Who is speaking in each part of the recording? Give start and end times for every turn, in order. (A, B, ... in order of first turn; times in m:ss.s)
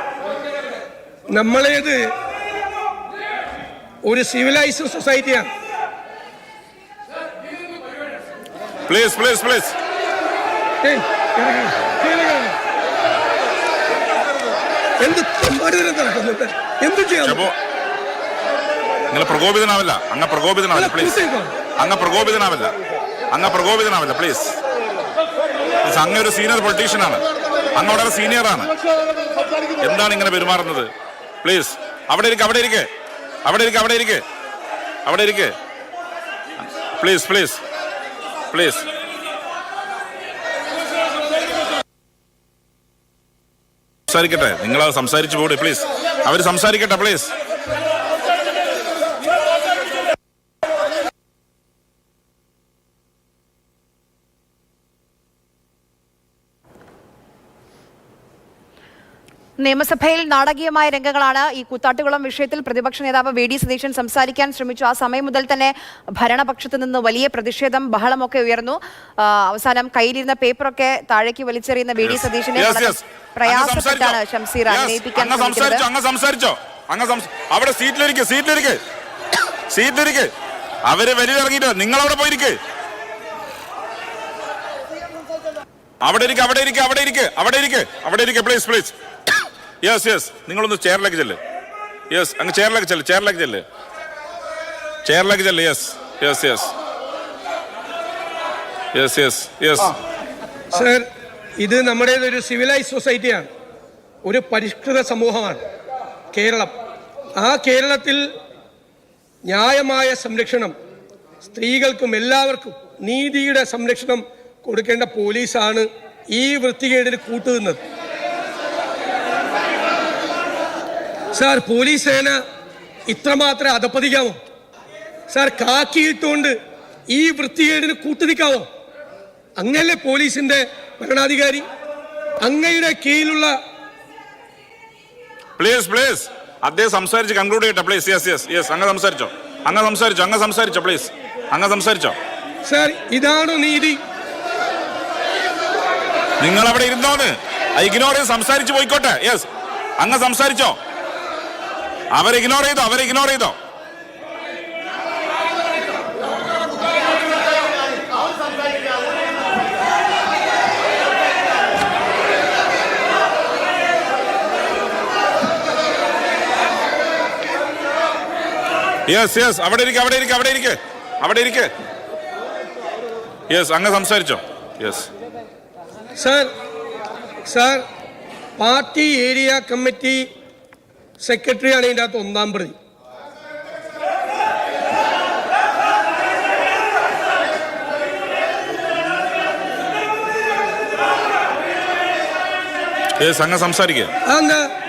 0:01.3-0:02.0 A
0:04.0-0:05.5 A
0:08.9-0:09.8 B
0:10.8-0:12.6 A
0:15.0-0:17.4 A
0:17.2-0:17.5 B
0:19.1-0:21.2 B
0:20.7-0:21.5 A
0:21.8-0:22.7 B
0:23.3-0:24.6 B
0:25.8-0:27.2 B
0:27.7-0:28.7 B
0:29.8-0:30.9 B
0:31.4-0:32.9 B
0:33.4-0:34.2 B
0:35.0-0:35.5 B
0:37.0-0:37.6 B
0:38.5-0:38.8 B
0:44.1-0:47.3 B
0:59.6-1:15.8 C
1:12.0-1:18.8 B
1:19.7-1:20.3 B
1:20.8-1:22.6 B
1:26.0-1:28.9 B
1:29.8-1:31.4 B
1:32.1-1:33.6 B
1:35.0-1:36.7 B
1:38.9-1:39.9 B
1:40.7-1:41.0 A
1:41.6-1:43.5 A
1:44.2-1:45.6 A
1:46.3-1:46.7 A
1:47.4-1:48.2 A
1:49.5-1:50.8 A
1:51.5-1:57.8 A
2:01.3-2:02.4 A
2:03.1-2:04.4 A
2:05.3-2:06.6 A
2:07.1-2:08.7 A
2:09.6-2:11.7 A
2:12.4-2:13.5 A
2:15.6-2:22.2 B
2:22.6-2:24.0 A
2:26.4-2:29.5 B
2:30.0-2:30.8 B
2:32.1-2:33.5 B
2:49.1-2:51.7 B
2:53.5-2:55.1 B
2:56.2-2:56.5 A
2:57.5-2:57.8 A
2:58.6-3:00.2 A
3:01.2-3:02.8 A
3:13.2-3:14.1 B
3:14.3-3:14.6 A